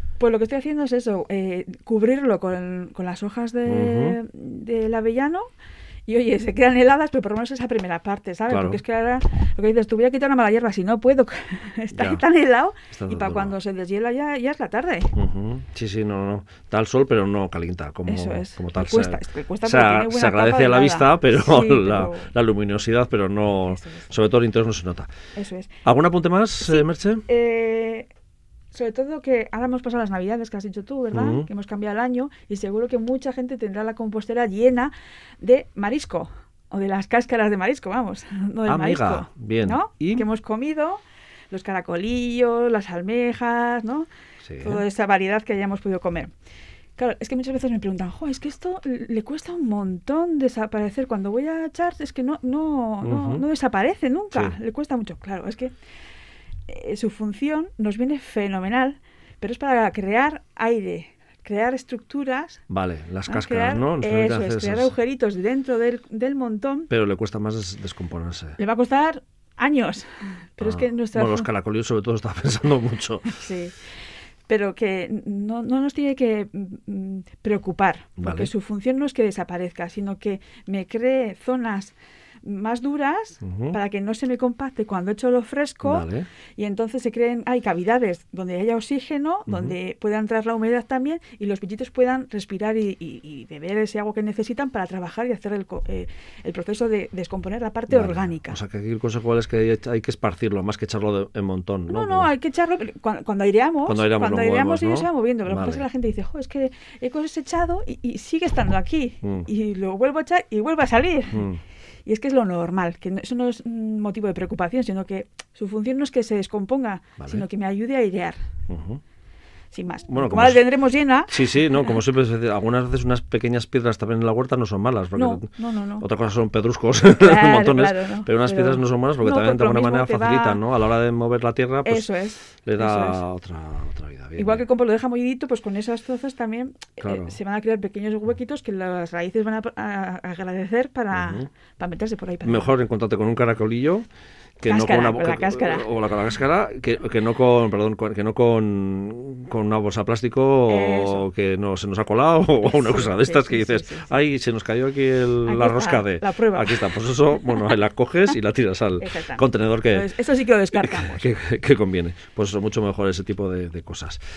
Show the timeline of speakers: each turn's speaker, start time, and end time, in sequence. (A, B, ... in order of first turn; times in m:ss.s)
0:00.2-0:05.5 A
0:03.6-0:04.2 B
0:06.0-0:15.2 A
0:08.5-0:08.8 B
0:11.9-0:12.2 B
0:12.9-0:13.5 B
0:15.1-0:25.1 B
0:18.1-0:22.3 A
0:23.7-0:24.1 A
0:25.4-0:25.7 A
0:25.8-0:27.2 B
0:26.6-0:28.1 A
0:28.7-0:44.1 A
0:31.1-0:31.5 B
0:38.6-0:40.3 B
0:44.4-0:44.8 B
0:44.6-0:46.3 A
0:47.0-0:55.7 A
0:53.0-0:53.4 B
0:54.3-0:54.6 B
0:56.7-1:02.6 A
1:02.7-1:04.9 B
1:03.3-1:06.9 A
1:06.9-1:08.6 B
1:08.6-1:11.5 A
1:10.6-1:13.3 B
1:13.3-1:13.7 A
1:14.5-1:38.6 A
1:18.2-1:18.5 B
1:23.4-1:23.8 B
1:25.8-1:26.3 B
1:29.5-1:29.7 B
1:37.9-1:42.3 B
1:41.9-1:51.5 A
1:43.8-1:45.8 B
1:51.3-1:51.6 B
1:52.0-1:58.4 A
1:57.2-1:57.4 B
1:58.7-1:59.0 B
1:59.7-2:02.0 A
2:00.1-2:00.7 B
2:01.3-2:05.5 B
2:05.1-2:06.0 A
2:06.0-2:12.1 B
2:07.2-2:10.6 A
2:11.8-2:13.2 A
2:12.6-2:14.6 B
2:14.4-2:22.7 A
2:17.0-2:17.3 B
2:21.1-2:21.4 B
2:22.4-2:24.0 B
2:24.6-2:40.1 B
2:24.6-2:25.9 A
2:30.7-2:31.3 A
2:32.6-2:34.1 A
2:35.4-2:37.6 A
2:39.0-2:41.3 A
2:40.7-2:44.2 B